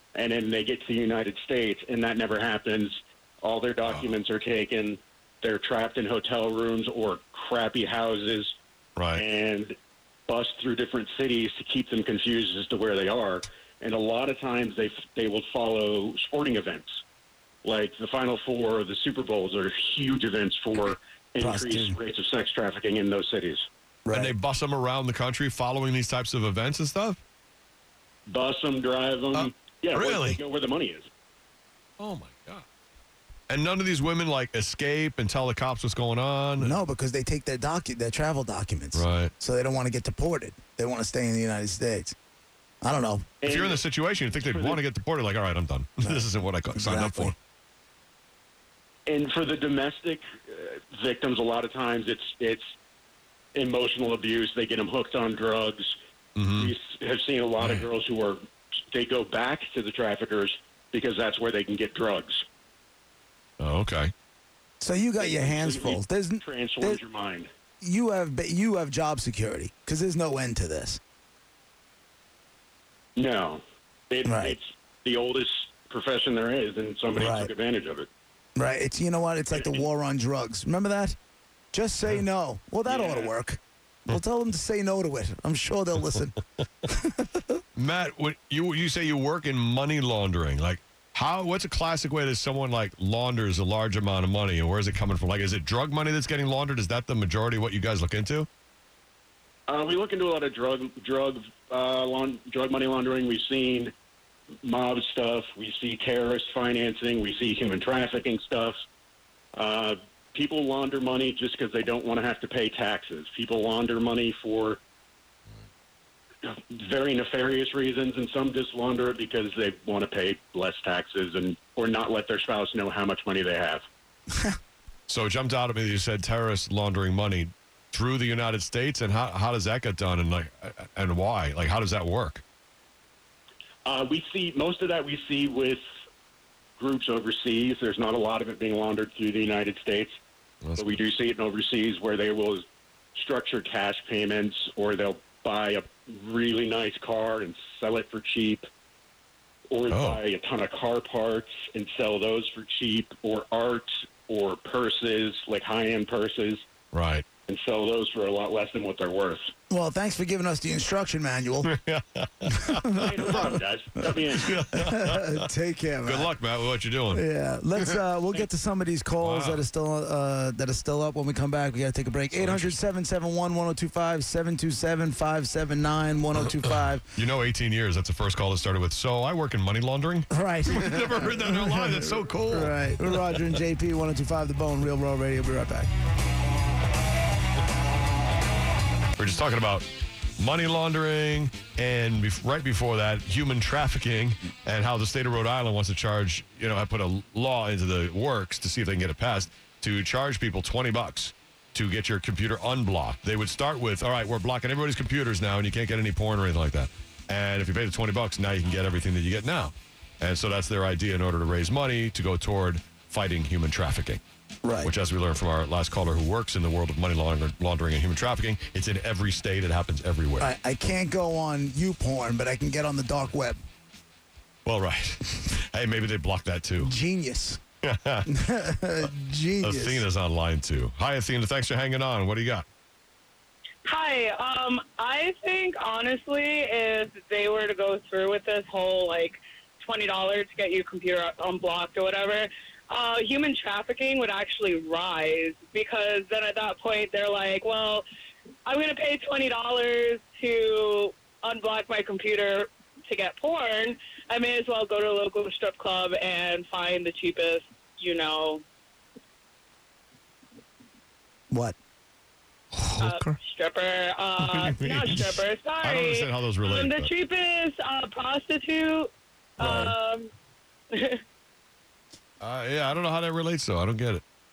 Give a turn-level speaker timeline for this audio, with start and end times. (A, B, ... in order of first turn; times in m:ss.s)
0:00.2-0:08.6 A
0:03.8-0:04.1 B
0:09.0-0:09.2 B
0:09.2-0:09.8 A
0:10.3-0:17.0 A
0:17.6-0:23.7 A
0:21.4-0:22.0 C
0:24.1-0:24.3 C
0:24.1-0:27.2 B
0:28.3-0:31.1 A
0:29.3-0:30.4 B
0:32.0-0:32.6 B
0:33.5-0:36.8 B
0:36.6-0:42.2 C
0:39.0-0:39.3 B
0:42.8-0:43.3 C
0:43.4-0:43.8 A
0:43.4-0:47.4 B
0:44.4-0:44.8 A
0:46.8-0:47.3 C
0:49.1-0:52.7 A
0:53.6-0:56.0 A
0:56.4-0:56.7 B
0:56.6-1:02.5 A
0:57.6-0:57.9 B
1:03.6-1:04.1 B
1:04.8-1:07.0 C
1:05.2-1:07.5 A
1:07.8-1:11.0 C
1:13.2-1:18.1 A
1:14.2-1:14.6 C
1:17.2-1:17.5 C
1:18.6-1:21.2 C
1:21.7-1:27.6 C
1:22.9-1:23.3 A
1:27.8-1:38.5 B
1:39.7-1:43.9 A
1:44.6-1:48.8 A
1:49.6-1:54.8 A
1:56.4-2:03.8 A
2:05.1-2:12.4 B
2:13.8-2:15.8 A
2:16.8-2:20.2 A
2:20.6-2:21.0 B
2:20.8-2:28.7 A
2:29.7-2:36.6 A
2:29.9-2:30.2 B
2:36.9-2:37.3 B
2:37.5-2:39.5 A
2:39.7-2:41.7 C
2:41.7-2:43.5 B
2:42.7-2:43.4 C
2:43.0-2:44.6 A
2:44.3-2:45.5 B
2:44.7-2:46.3 C
2:46.0-2:47.2 B
2:47.1-2:57.0 C
2:49.2-2:49.6 B
2:52.4-2:52.8 B
2:57.2-3:03.4 B
3:00.3-3:05.9 C
3:09.2-3:09.9 B
3:10.4-3:34.2 B
3:34.6-3:34.9 C
3:34.8-3:40.5 B
3:40.4-3:43.6 C
3:44.6-3:46.9 B
3:46.8-3:47.6 C
3:47.8-3:48.3 B
3:48.3-3:50.0 C
3:49.6-3:52.6 B
3:53.9-4:08.0 D
4:08.7-4:18.6 D
4:21.5-4:21.8 C
4:22.7-4:23.2 B
4:23.0-4:30.3 D
4:24.4-4:27.1 B
4:29.6-4:29.9 C
4:30.9-4:31.2 D
4:32.4-4:34.2 B